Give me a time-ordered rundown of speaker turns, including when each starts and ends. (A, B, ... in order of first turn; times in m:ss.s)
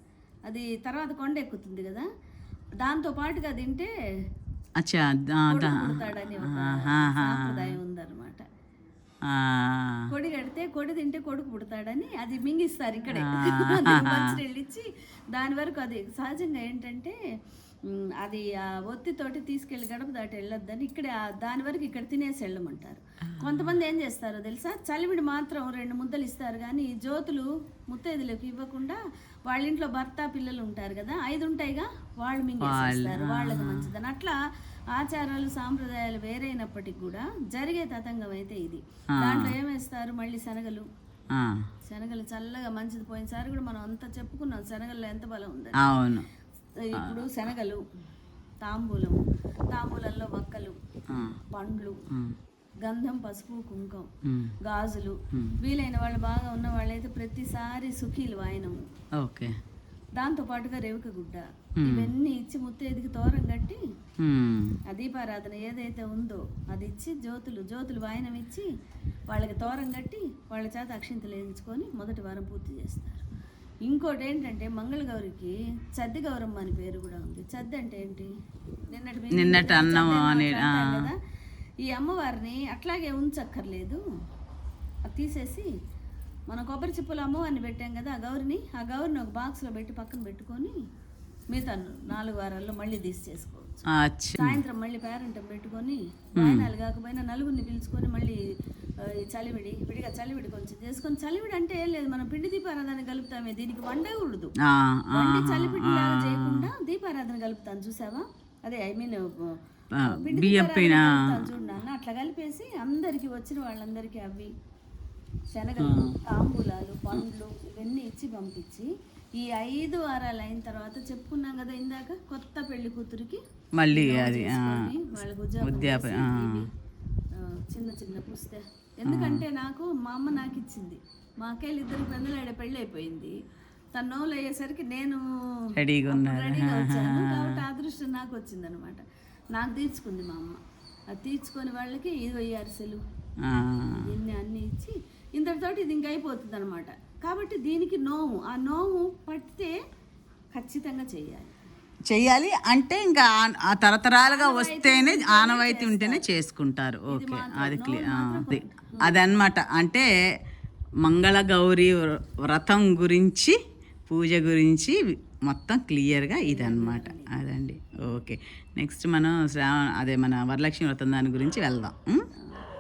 0:00.5-0:02.1 A
0:02.8-0:03.9 A
0:04.8-0:07.8 B
0:05.5-0:08.4 A
0:09.2-0:10.1 B
0:10.1-0:17.2 A
0:13.1-0:14.4 B
0:17.9-0:34.4 A
0:32.6-0:33.8 B
0:34.9-0:40.9 A
0:39.2-0:39.5 B
0:41.3-0:41.6 B
0:41.9-0:45.8 A
0:45.8-0:46.3 B
0:46.8-0:47.8 A
0:48.6-0:50.8 A
0:51.1-0:51.4 B
0:51.5-0:52.0 A
0:52.8-0:54.1 A
0:54.3-0:54.5 B
0:54.6-0:58.8 A
0:59.2-0:59.6 B
1:00.2-1:03.8 A
1:01.8-1:02.1 B
1:04.2-1:04.8 B
1:04.9-1:08.7 A
1:09.3-1:13.2 A
1:13.9-1:18.3 A
1:18.9-1:21.2 A
1:19.3-1:21.1 B
1:21.8-1:24.0 A
1:25.1-1:25.7 A
1:26.5-1:30.8 A
1:31.5-1:33.9 A
1:33.9-1:34.6 B
1:34.4-1:38.4 A
1:36.4-1:36.7 B
1:39.0-1:44.5 A
1:44.6-1:46.7 B
1:45.1-1:54.5 A
1:50.0-1:51.7 B
1:55.5-2:06.7 A
1:55.8-1:56.2 B
2:03.8-2:04.9 B
2:05.6-2:06.6 B
2:07.3-2:13.4 A
2:09.1-2:09.4 B
2:14.0-2:15.2 A
2:15.8-2:17.6 B
2:16.1-2:19.0 A
2:19.6-2:20.6 A
2:21.1-2:23.0 A
2:23.4-2:24.0 B
2:23.9-2:29.8 A
2:30.6-2:31.6 A
2:32.1-2:40.1 B
2:34.2-2:36.3 A
2:37.1-2:39.2 A
2:41.0-2:43.6 B
2:44.1-2:52.2 B
2:46.4-2:47.4 A
2:52.4-2:52.7 A